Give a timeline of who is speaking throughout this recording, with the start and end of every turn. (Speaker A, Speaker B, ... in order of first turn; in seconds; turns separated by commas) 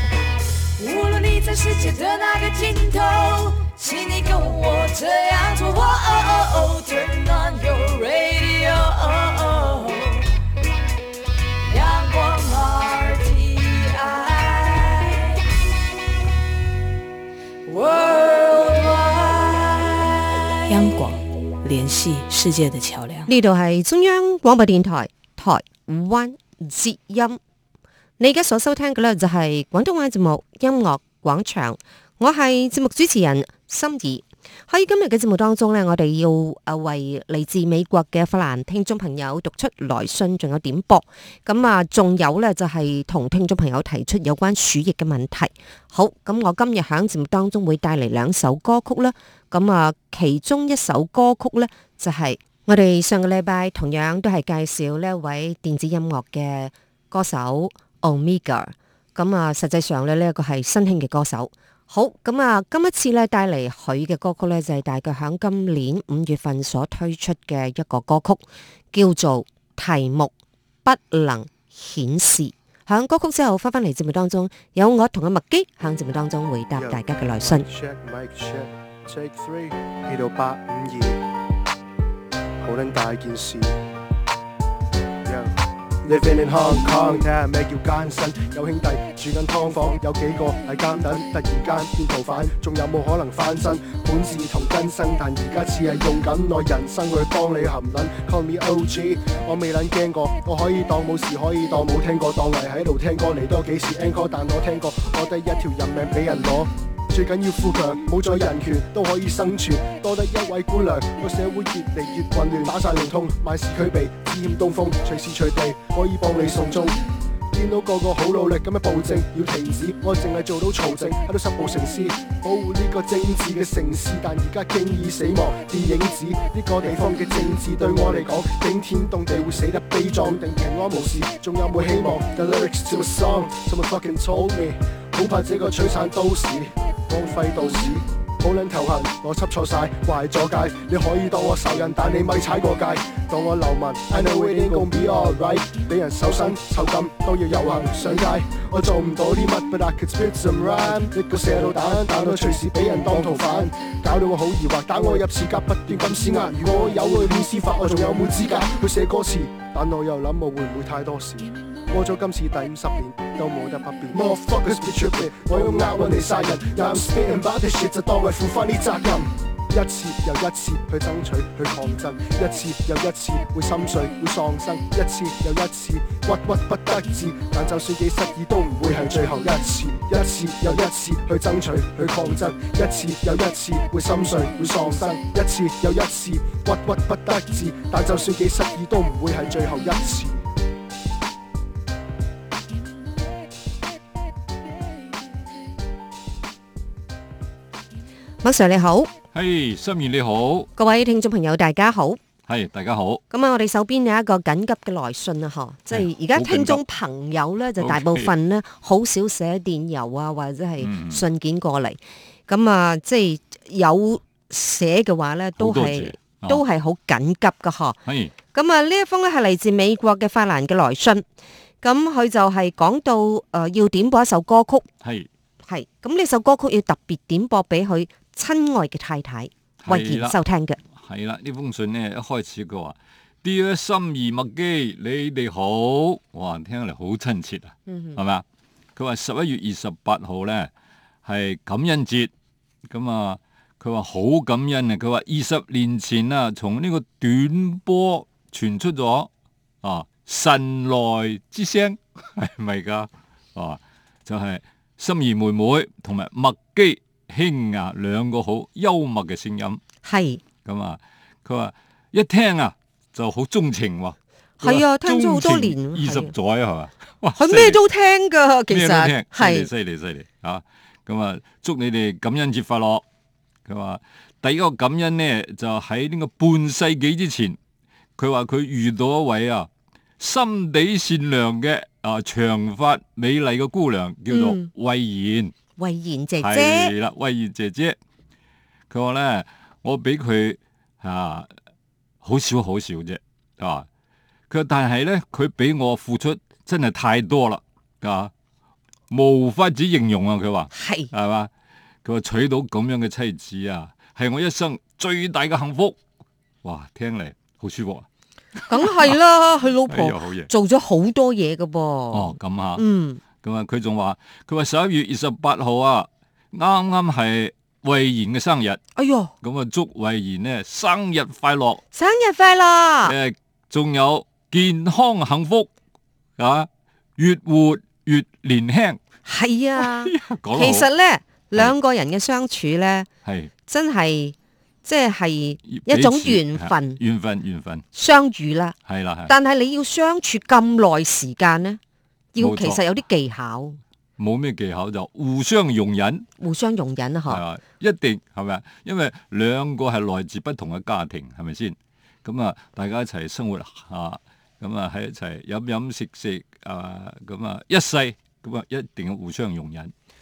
Speaker A: 0.8-10.3, Speaker A: 11.7-15.4, Speaker A: 17.7-20.5, Speaker B: 20.7-23.3, Speaker C: 23.2-27.4, Speaker C: 28.2-70.3, Speaker C: 70.8-77.6, Speaker D: 76.7-81.2, Speaker D: 82.6-83.8, Speaker D: 85.2-117.0, Speaker D: 117.5-190.4, Speaker C: 198.4-199.1, Speaker E: 199.3-200.7, Speaker C: 200.8-202.2, Speaker E: 202.5-203.2, Speaker C: 203.3-218.0, Speaker E: 205.9-206.8, Speaker E: 207.8-208.3, Speaker E: 210.8-211.2, Speaker E: 215.6-216.6, Speaker E: 218.1-218.3, Speaker C: 218.5-221.2, Speaker C: 221.8-224.8, Speaker E: 225.0-225.3, Speaker C: 225.7-230.8, Speaker E: 229.8-230.3, Speaker E: 230.9-238.4, Speaker C: 237.9-238.2, Speaker E: 238.9-240.7, Speaker E: 241.2-242.3, Speaker E: 242.8-249.3, Speaker E: 249.8-259.8, Speaker C: 260.0-260.4, Speaker E: 260.6-267.8, Speaker C: 264.6-266.3, Speaker C: 267.4-269.7, Speaker E: 268.7-273.0, Speaker E: 273.6-277.6, Speaker E: 278.2-285.5, Speaker C: 284.3-284.7, Speaker C: 285.8-286.9, Speaker E: 286.4-288.0, Speaker E: 288.9-291.5, Speaker E: 292.2-293.9, Speaker E: 294.5-298.3, Speaker E: 299.1-301.5, Speaker C: 300.7-301.1, Speaker E: 302.0-306.0, Speaker E: 306.6-308.1, Speaker E: 308.6-309.2, Speaker C: 308.7-313.2, Speaker E: 309.9-310.5, Speaker E: 312.1-312.8, Speaker E: 313.4-318.8, Speaker C: 318.9-319.3, Speaker E: 319.4-321.8, Speaker C: 321.9-323.1, Speaker E: 323.0-325.7, Speaker E: 326.4-329.0, Speaker C: 329.2-333.1, Speaker E: 329.8-330.9, Speaker E: 333.2-333.5, Speaker C: 333.7-337.0, Speaker E: 335.7-337.8, Speaker C: 337.9-338.8, Speaker E: 338.9-339.3, Speaker C: 339.3-341.8, Speaker C: 342.3-343.8, Speaker E: 342.4-342.8, Speaker E: 344.2-346.3, Speaker C: 346.4-347.4, Speaker E: 347.3-359.9